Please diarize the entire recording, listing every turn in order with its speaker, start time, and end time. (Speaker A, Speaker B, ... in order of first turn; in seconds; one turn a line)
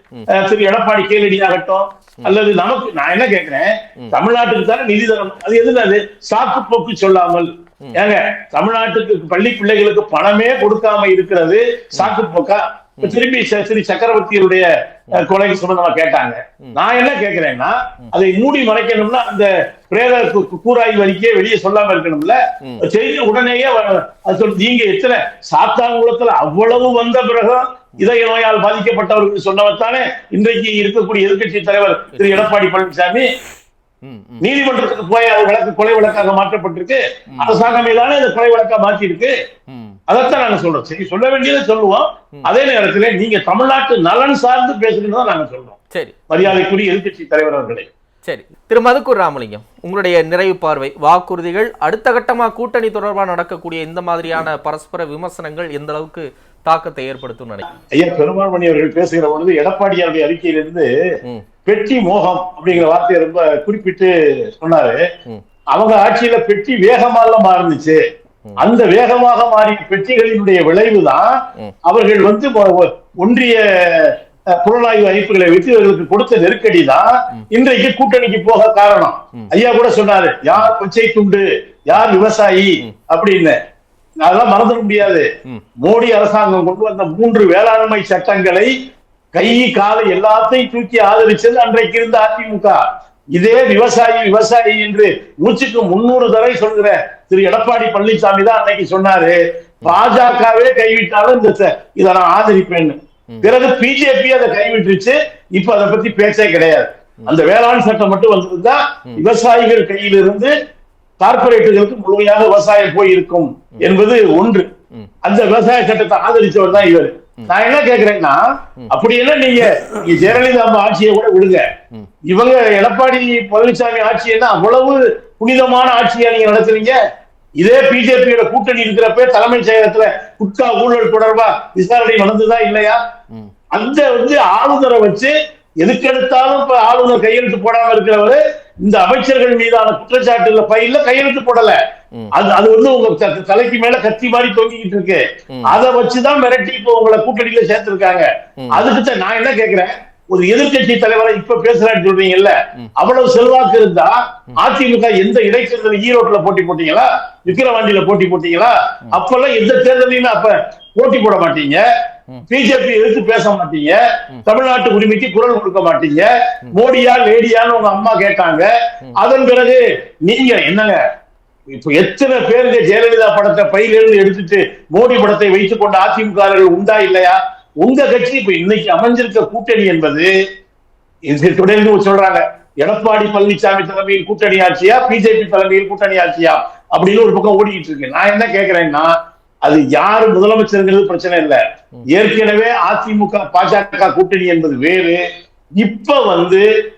Speaker A: 0.3-33.2
Speaker B: 32.1-32.5
Speaker B: 34.0-34.4
Speaker A: 34.4-39.3
Speaker B: 39.7-40.0
Speaker A: 40.1-45.8
Speaker B: 45.9-46.6
Speaker A: 46.3-47.9
Speaker B: 48.2-57.6
Speaker A: 57.9-60.9
Speaker A: 61.6-65.0
Speaker A: 65.7-68.0
Speaker A: 68.6-71.3
Speaker A: 71.8-83.5
Speaker A: 84.2-85.3
Speaker A: 85.8-88.7
Speaker A: 89.3-92.8
Speaker A: 93.3-110.5
Speaker A: 111.2-114.7
Speaker A: 115.2-121.6
Speaker A: 122.3-127.0
Speaker A: 127.6-133.0
Speaker A: 133.7-141.8
Speaker A: 142.3-161.8
Speaker A: 162.5-171.0
Speaker A: 171.7-180.3
Speaker A: 181.3-189.1
Speaker A: 189.6-191.6
Speaker A: 192.1-195.2
Speaker A: 195.8-196.6